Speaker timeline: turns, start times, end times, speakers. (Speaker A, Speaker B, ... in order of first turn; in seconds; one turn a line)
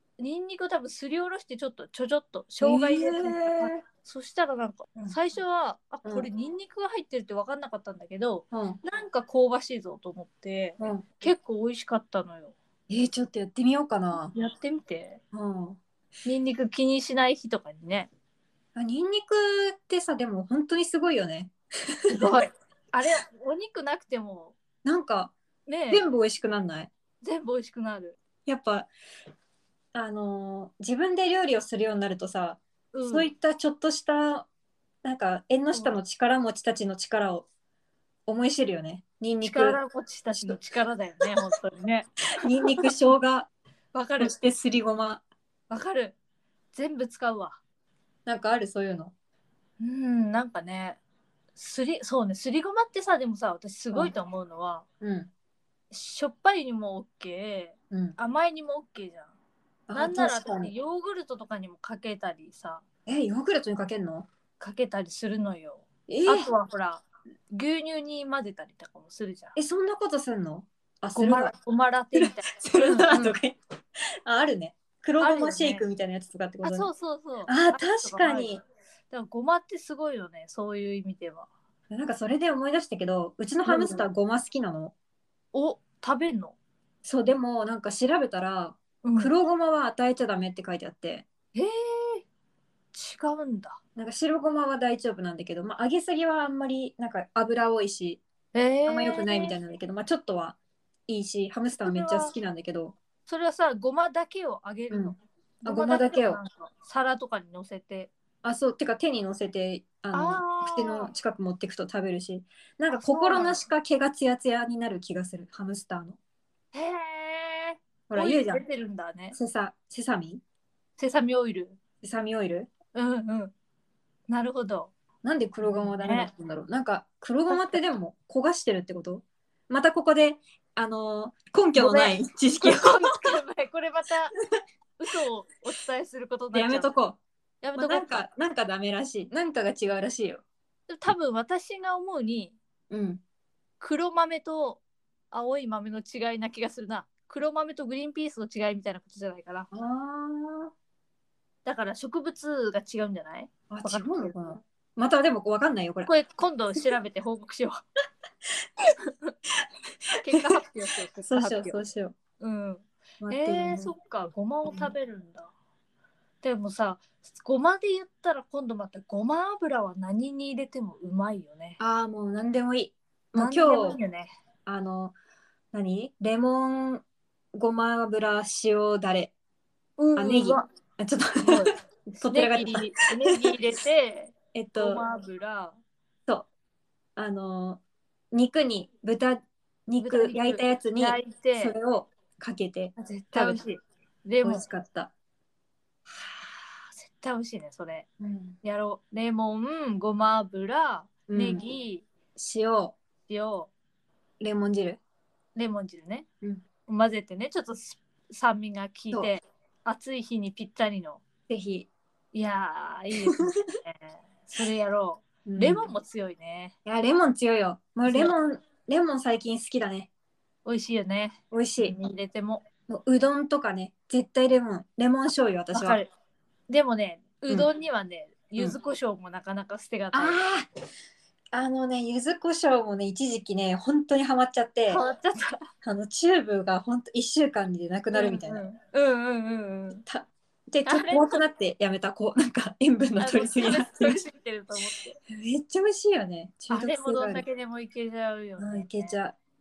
Speaker A: 0.2-12.5
Speaker B: 2.6-3.8
Speaker B: 8.5-8.8
Speaker B: 10.8-11.0
Speaker B: 12.9-14.3
Speaker A: 14.2-15.2
Speaker B: 15.3-15.8
Speaker A: 16.2-18.1
Speaker B: 18.7-21.5
Speaker B: 22.0-22.4
Speaker A: 22.1-24.6
Speaker B: 24.8-25.3
Speaker A: 25.6-26.1
Speaker B: 25.9-26.9
Speaker A: 27.2-28.2
Speaker B: 28.4-28.9
Speaker B: 29.9-34.5
Speaker A: 32.9-33.3
Speaker B: 35.0-37.5
Speaker B: 38.3-39.8
Speaker A: 39.4-42.1
Speaker B: 40.3-40.6
Speaker B: 42.4-43.5
Speaker A: 43.9-44.4
Speaker B: 44.2-45.2
Speaker A: 45.7-46.2
Speaker A: 46.7-47.6
Speaker B: 48.2-49.1
Speaker A: 49.8-51.0
Speaker A: 51.5-54.8
Speaker B: 55.0-55.3
Speaker A: 55.9-59.3
Speaker B: 57.9-58.2
Speaker B: 59.9-60.7
Speaker A: 59.9-62.8
Speaker B: 63.0-64.3
Speaker A: 64.6-69.5
Speaker B: 66.1-66.5
Speaker B: 69.5-71.5
Speaker A: 71.1-73.4
Speaker B: 72.1-73.6
Speaker B: 74.2-76.9
Speaker A: 75.2-75.8
Speaker A: 76.6-78.6
Speaker B: 77.5-78.6
Speaker A: 79.1-81.5
Speaker B: 81.9-84.9
Speaker A: 83.6-84.0
Speaker A: 85.5-86.5
Speaker B: 87.0-91.3
Speaker A: 89.0-89.3
Speaker A: 91.5-92.2
Speaker A: 92.9-93.8
Speaker B: 94.0-98.2
Speaker A: 98.5-99.5
Speaker B: 98.9-103.0
Speaker A: 101.8-102.3
Speaker A: 103.3-108.1
Speaker B: 104.9-106.4
Speaker B: 108.4-116.2
Speaker A: 110.1-111.1
Speaker A: 112.9-113.6
Speaker A: 116.7-119.4
Speaker B: 118.1-118.6
Speaker B: 119.3-120.4
Speaker A: 121.0-121.8
Speaker B: 122.0-122.7
Speaker A: 122.9-123.5
Speaker A: 124.3-124.9
Speaker B: 125.2-133.4
Speaker A: 125.6-126.3
Speaker A: 127.5-127.8
Speaker A: 131.7-134.3
Speaker A: 135.0-136.9
Speaker B: 136.5-137.2
Speaker A: 137.6-138.2
Speaker B: 137.7-140.4
Speaker A: 140.9-142.6
Speaker B: 142.9-143.2
Speaker A: 143.8-149.7
Speaker B: 149.7-150.7
Speaker A: 151.6-154.6
Speaker B: 153.7-156.1
Speaker A: 156.1-157.8
Speaker A: 160.2-161.8
Speaker B: 160.2-160.5
Speaker B: 161.2-162.2
Speaker A: 162.4-165.5
Speaker B: 163.2-163.9
Speaker B: 164.7-164.9
Speaker A: 166.4-171.8
Speaker B: 171.8-174.0
Speaker A: 173.3-174.3
Speaker B: 174.7-175.1
Speaker B: 175.7-177.0
Speaker B: 177.5-179.3
Speaker A: 180.0-180.6
Speaker B: 180.2-182.9
Speaker A: 181.4-185.8
Speaker B: 184.5-185.0
Speaker B: 187.2-193.6
Speaker A: 190.0-191.7
Speaker A: 192.9-194.7
Speaker B: 194.4-195.1
Speaker A: 196.1-198.1
Speaker B: 198.2-198.6
Speaker A: 198.6-202.1
Speaker B: 201.3-201.6
Speaker B: 202.3-203.0
Speaker A: 203.3-203.7
Speaker B: 204.4-205.0
Speaker A: 205.5-206.2
Speaker A: 206.9-211.2
Speaker B: 211.5-211.9
Speaker A: 212.3-216.7
Speaker B: 213.2-213.6
Speaker B: 215.4-215.9
Speaker B: 216.8-220.1
Speaker A: 218.1-218.3
Speaker A: 220.6-222.6
Speaker B: 221.5-221.9
Speaker B: 222.9-226.0
Speaker A: 225.7-226.1
Speaker A: 226.7-230.4
Speaker B: 230.1-230.7
Speaker B: 231.5-235.0
Speaker A: 234.9-235.6
Speaker B: 235.8-238.6
Speaker A: 238.1-240.0
Speaker B: 240.1-244.2
Speaker A: 240.9-241.4
Speaker A: 243.2-245.2
Speaker B: 245.3-247.4
Speaker A: 246.7-249.1
Speaker B: 248.6-249.4